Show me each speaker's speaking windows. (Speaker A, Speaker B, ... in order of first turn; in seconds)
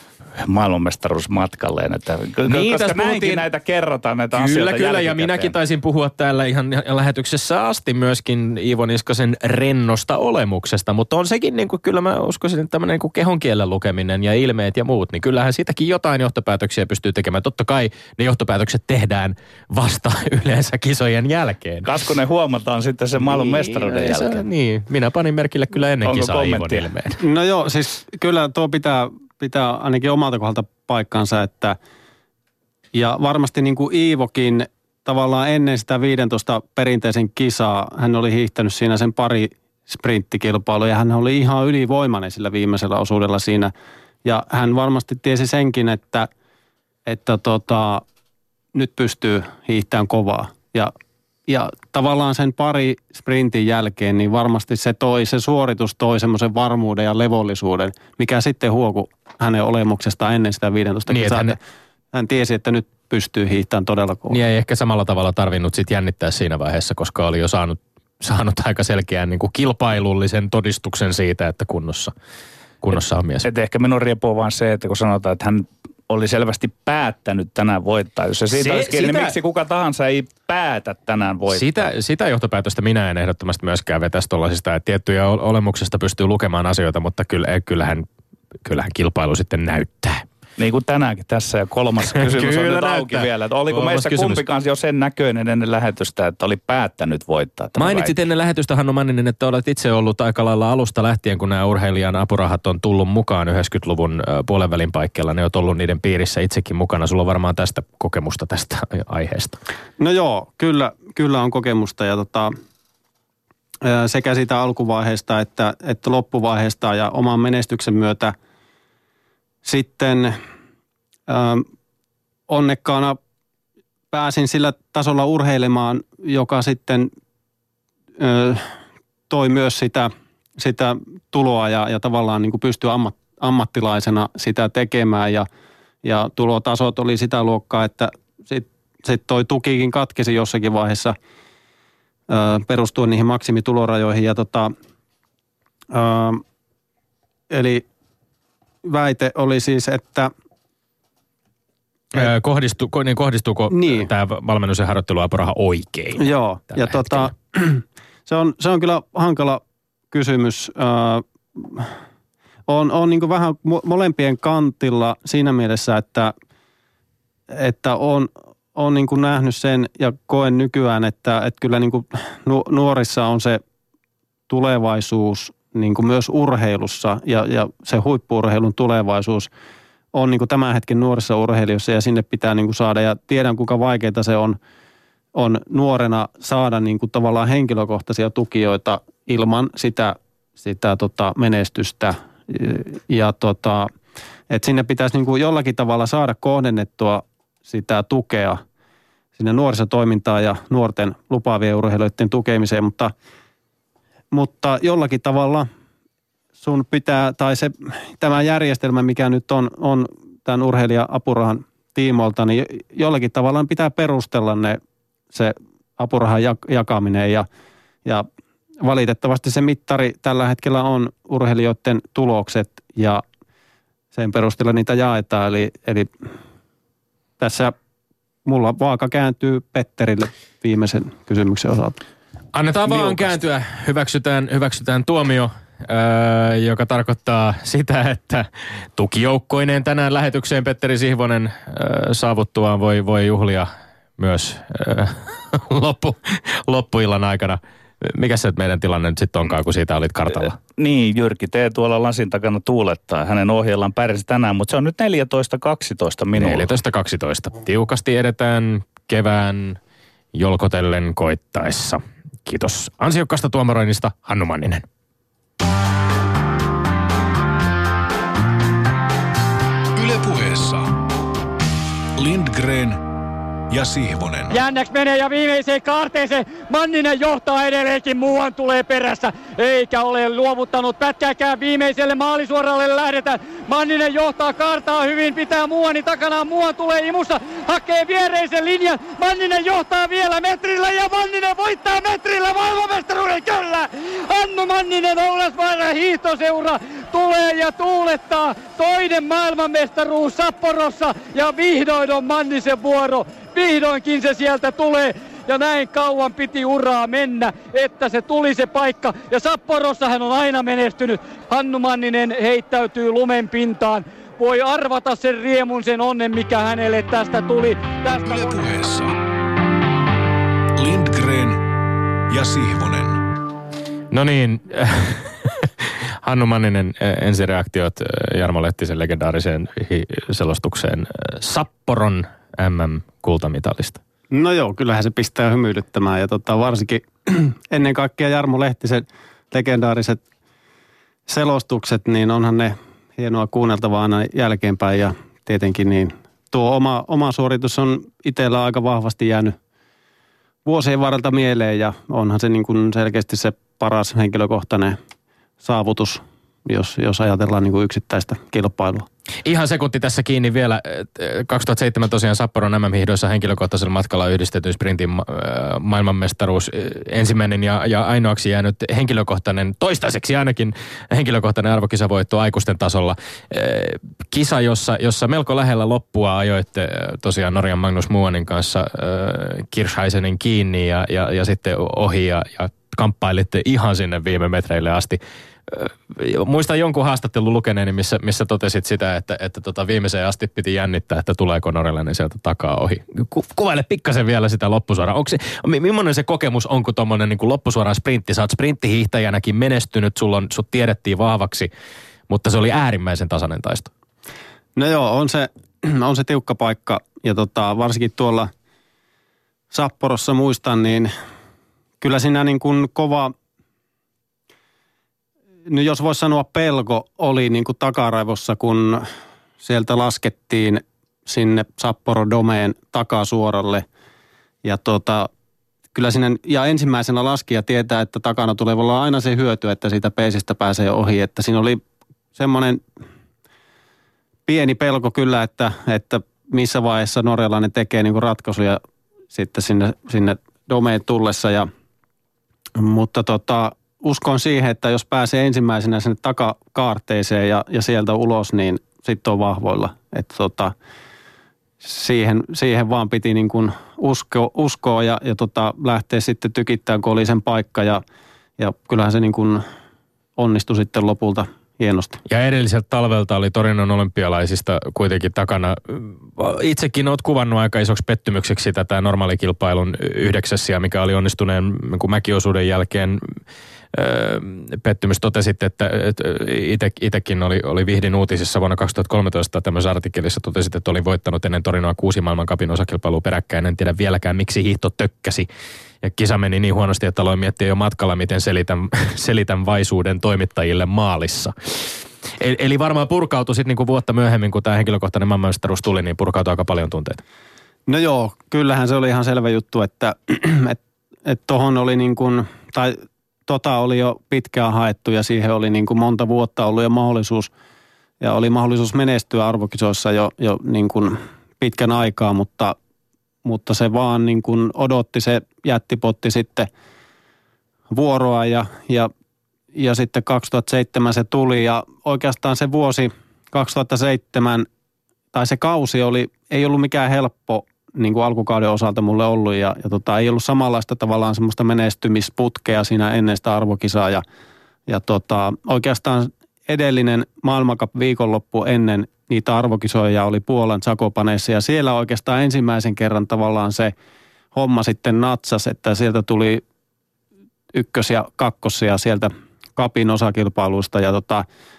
Speaker A: 0.4-5.5, 21.8-24.4, 26.1-26.9, 73.4-81.9, 90.6-98.1, 250.8-256.7
Speaker B: 2.5-3.5, 4.3-21.9, 23.2-27.2, 61.1-61.6, 64.3-72.1, 72.8-73.5, 78.5-79.3, 81.5-88.1, 88.6-90.3, 92.1-94.4, 97.8-109.6, 152.1-157.3, 232.5-250.6, 256.4-259.8, 260.3-264.9, 324.1-334.0, 359.4-401.7, 402.3-403.9, 462.3-473.3, 473.9-485.5, 486.0-497.2
Speaker C: 27.2-31.8, 32.9-43.7, 44.2-46.3, 47.1-48.0, 48.8-50.9, 51.5-61.6, 62.1-64.4, 110.0-112.5, 113.8-118.3, 119.6-120.3, 121.3-121.7, 122.5-123.2, 124.1-127.1, 128.2-128.7, 129.3-135.4, 136.0-141.1, 142.3-144.7, 145.9-146.4, 147.5-147.8, 148.8-150.3, 153.7-154.1, 156.2-159.6, 160.1-161.9, 162.7-166.3, 167.5-173.6, 174.5-179.5, 180.1-184.6, 185.3-193.9, 194.5-198.6, 199.4-203.1, 204.3-205.7, 206.6-214.8, 215.3-217.5, 218.8-223.2, 224.1-226.1, 227.4-227.7, 228.4-232.0, 334.3-340.2, 341.3-349.6, 350.6-355.0, 355.6-359.1, 404.8-408.5, 409.7-411.1, 412.0-413.3, 415.7-419.0, 419.6-423.9, 424.6-425.3, 425.9-431.8, 432.4-432.8, 434.5-438.8, 439.3-441.7, 442.8-450.7, 451.8-458.0, 458.6-459.6, 460.4-462.2, 497.9-507.5, 508.2-512.7, 513.5-516.7, 517.9-519.1, 519.7-524.7, 525.3-534.2, 534.9-543.9, 544.5-546.6, 547.7-551.5
Speaker D: 270.0-271.0, 272.2-273.0, 273.7-274.6, 318.2-319.1, 320.8-321.6, 322.3-323.2
Speaker E: 274.5-318.7